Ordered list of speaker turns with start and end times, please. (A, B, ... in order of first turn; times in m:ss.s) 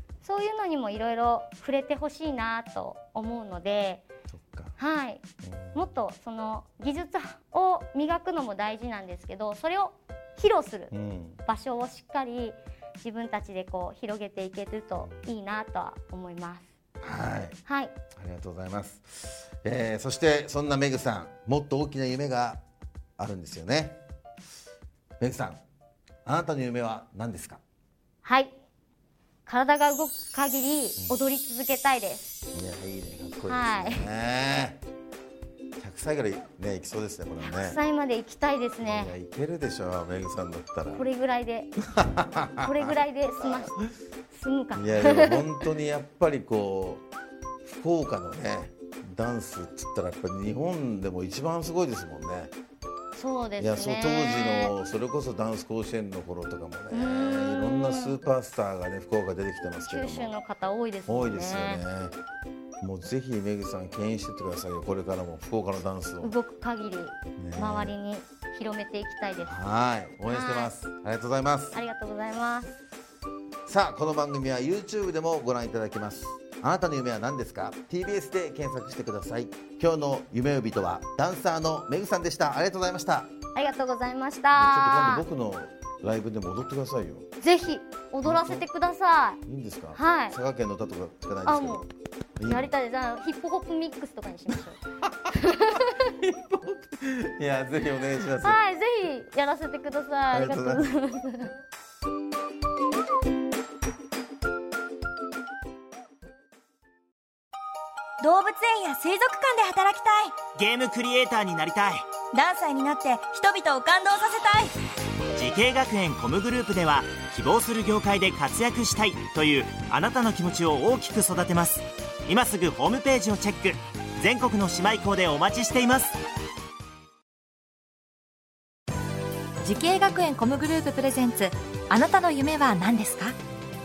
0:00.2-0:04.0 A
0:04.3-0:04.8 B
0:04.8-0:05.2 A
0:05.4-0:05.8 B
0:05.7-0:10.9 A
0:10.9-0:11.4 B
0:11.4-0:16.7 A
0:17.0-0:17.6 B
0:17.6-0:17.9 A
0:18.2-0:22.6 B
0:23.2-0:24.0 B
0:25.2-0:25.6 B
0:26.2-0:27.6 B
0:28.2-0:28.5 A
0:29.5-0:32.4 A
0:32.5-0:34.8 B
0:33.5-0:34.1 A
0:35.8-0:37.8 B
0:37.4-0:39.2 A
0:38.8-0:41.1 B
0:41.0-0:41.8 A
0:42.0-0:43.5 B
0:42.6-0:43.8 A
0:44.3-0:45.5 A
0:44.8-0:47.0 B
0:47.6-0:52.5 B
0:53.2-0:54.7 A
0:53.6-1:00.3 B
0:56.9-0:58.2 A
0:59.9-1:01.8 A
1:01.1-1:02.2 B
1:02.8-1:06.4 B
1:06.2-1:09.6 A
1:07.4-1:08.0 B
1:09.4-1:11.8 B
1:10.3-1:10.9 A
1:11.7-1:12.8 A
1:13.7-1:23.3 B
1:23.5-1:25.3 A
1:24.6-1:27.3 B
1:27.4-1:29.4 A
1:28.2-1:28.6 B
1:29.5-1:31.8 B
1:29.9-1:30.4 A
1:31.4-1:31.9 A
1:32.4-1:32.7 B
1:32.4-1:36.1 A
1:35.7-1:38.6 B
1:38.4-1:41.5 A
1:40.3-1:40.9 B
1:48.2-1:50.4 C
1:50.6-1:52.1 D
1:52.3-1:54.8 C
1:55.3-2:06.2 D
2:09.6-2:13.4 E